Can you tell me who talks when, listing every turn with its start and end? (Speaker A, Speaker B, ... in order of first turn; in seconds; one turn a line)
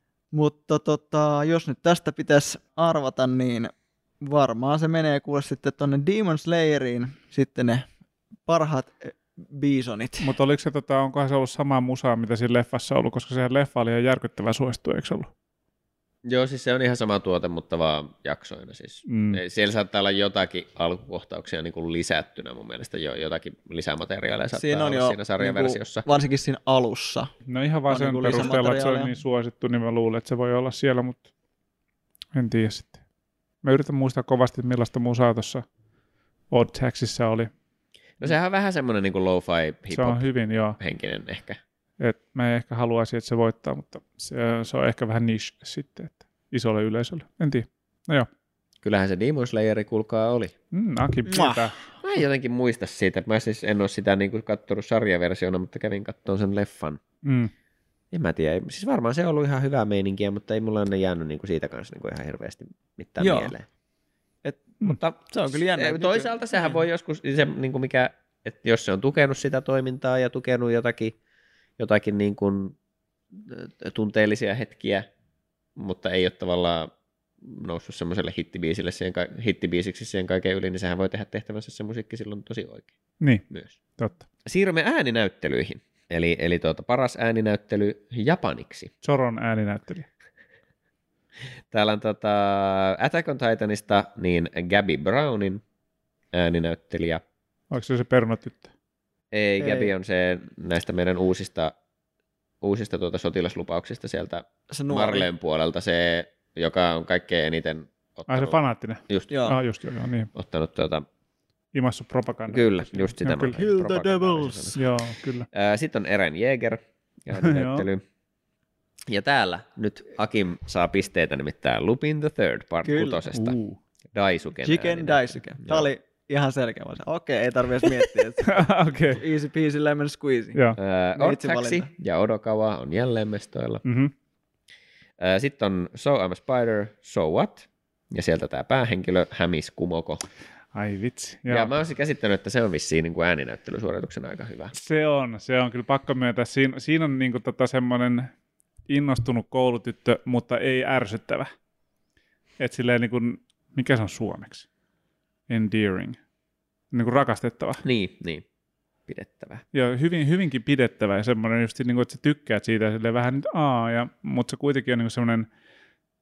Speaker A: 0.3-7.9
Speaker A: 8.5-10.3
Speaker B: 10.2-15.3
Speaker C: 16.3-26.1
Speaker B: 19.1-19.4
Speaker A: 24.5-27.3
Speaker B: 27.5-31.3
Speaker A: 27.9-29.1
Speaker B: 32.3-33.0
Speaker B: 33.6-35.6
Speaker B: 36.5-37.5
Speaker C: 38.2-40.3
Speaker B: 39.9-40.8
Speaker C: 40.8-41.6
Speaker B: 42.0-48.3
Speaker C: 48.8-50.5
Speaker B: 50.7-51.8
Speaker A: 51.3-51.7
Speaker C: 52.0-57.0
Speaker B: 57.2-57.5
Speaker C: 58.1-63.7
Speaker A: 63.2-63.5
Speaker A: 64.4-66.8
Speaker C: 64.8-71.2
Speaker C: 71.8-72.8
Speaker C: 73.3-75.1
Speaker C: 75.8-76.9
Speaker C: 77.4-82.9
Speaker B: 83.2-83.5
Speaker C: 83.5-83.8
Speaker B: 84.0-84.2
Speaker C: 84.5-88.9
Speaker B: 89.0-90.1
Speaker C: 91.7-95.6
Speaker C: 96.3-97.2
Speaker B: 97.7-98.7
Speaker C: 99.3-101.7
Speaker A: 99.6-99.9
Speaker C: 102.6-108.6
Speaker A: 104.7-105.3
Speaker B: 108.3-110.3
Speaker A: 109.3-109.6
Speaker C: 110.3-111.1
Speaker B: 111.7-113.6
Speaker C: 112.5-114.8
Speaker A: 113.5-114.8
Speaker B: 114.8-115.5
Speaker C: 115.5-118.0
Speaker B: 117.3-117.9
Speaker C: 119.1-123.6
Speaker A: 122.8-123.2
Speaker B: 123.3-123.8
Speaker C: 124.1-125.9
Speaker A: 124.6-130.6
Speaker B: 128.4-129.2
Speaker C: 130.8-133.8
Speaker A: 131.2-131.9
Speaker B: 133.8-134.1
Speaker C: 135.2-140.2
Speaker B: 140.7-141.7
Speaker C: 141.5-144.7
Speaker B: 144.7-148.3
Speaker B: 148.9-151.5
Speaker B: 152.6-154.7
Speaker B: 155.5-156.2
Speaker B: 156.9-157.8
Speaker C: 157.8-158.4
Speaker C: 159.1-159.6
Speaker B: 159.7-165.5